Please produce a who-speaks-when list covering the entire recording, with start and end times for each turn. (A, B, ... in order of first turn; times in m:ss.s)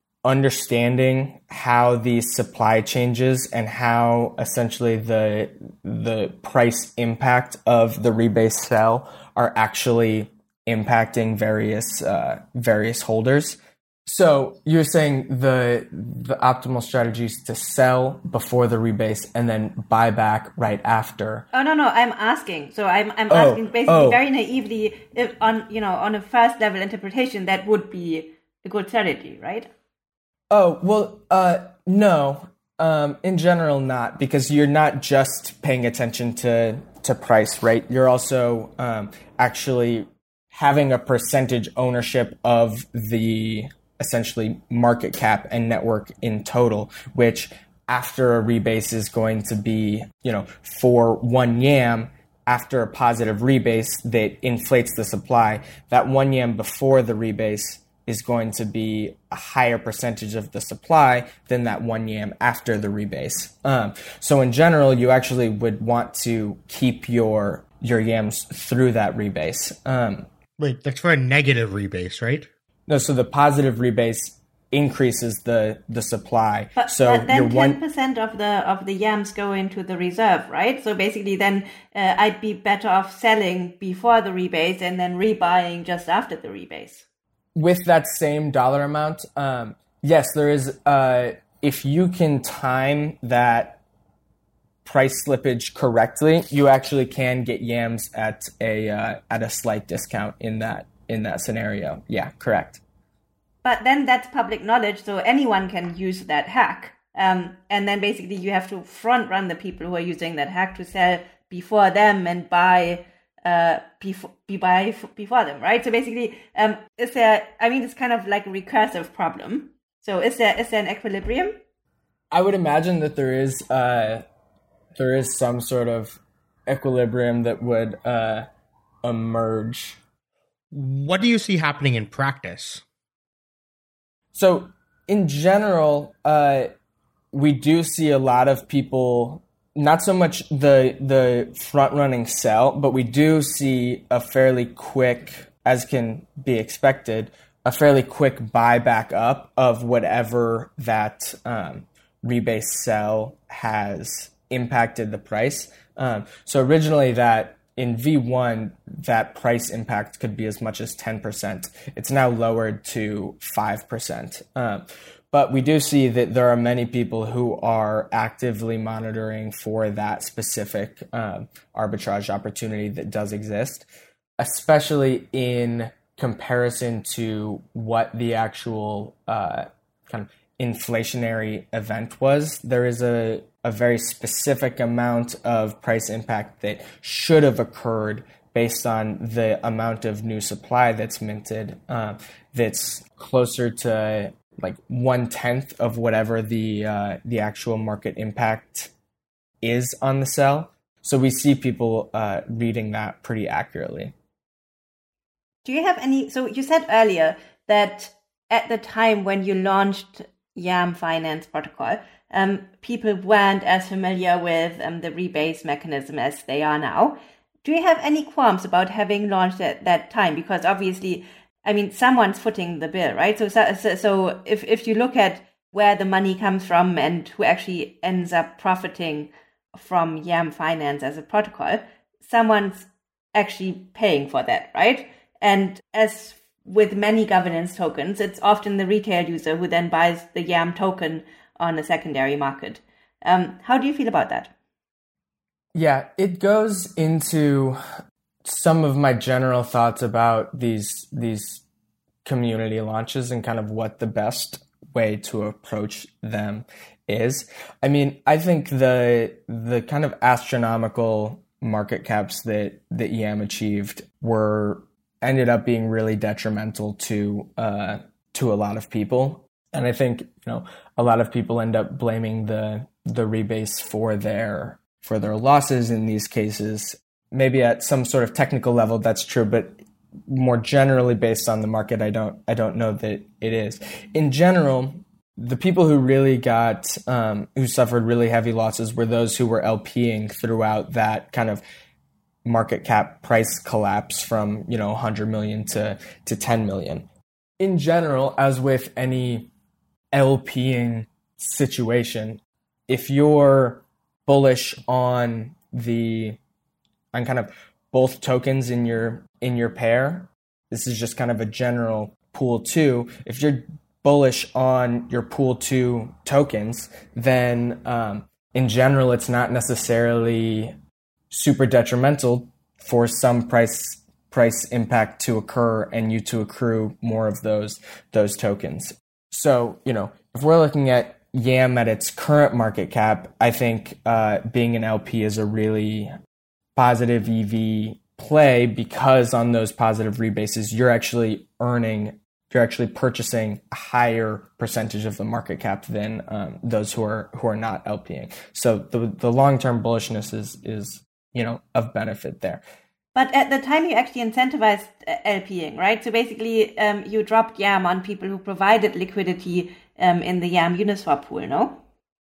0:00.2-0:21.4 A
0:21.5-0:29.7 B
0:23.3-0:24.2 A
0:30.5-1:10.2 A
1:10.6-1:12.5 C
1:12.9-1:17.8 A
1:16.8-1:27.0 B
1:27.6-1:33.8 A
1:34.8-1:42.8 A
1:43.6-2:01.6 B
2:02.3-2:04.2 A
2:04.9-2:08.5 A
2:09.0-2:10.0 A
2:10.7-2:12.8 C
2:14.3-2:16.7 A
2:17.3-2:53.9 A
2:54.4-3:18.9 A
3:19.6-3:24.1 A
3:25.6-4:04.5 B
4:05.7-4:07.8 A
4:08.4-4:11.6 A
4:12.2-4:51.6 A
4:52.4-4:57.0 A
4:57.6-4:59.5 A
5:00.1-5:06.4 A
5:07.1-5:20.8 A
5:21.3-5:36.1 A
5:36.8-5:52.6 A
5:53.1-6:01.8 B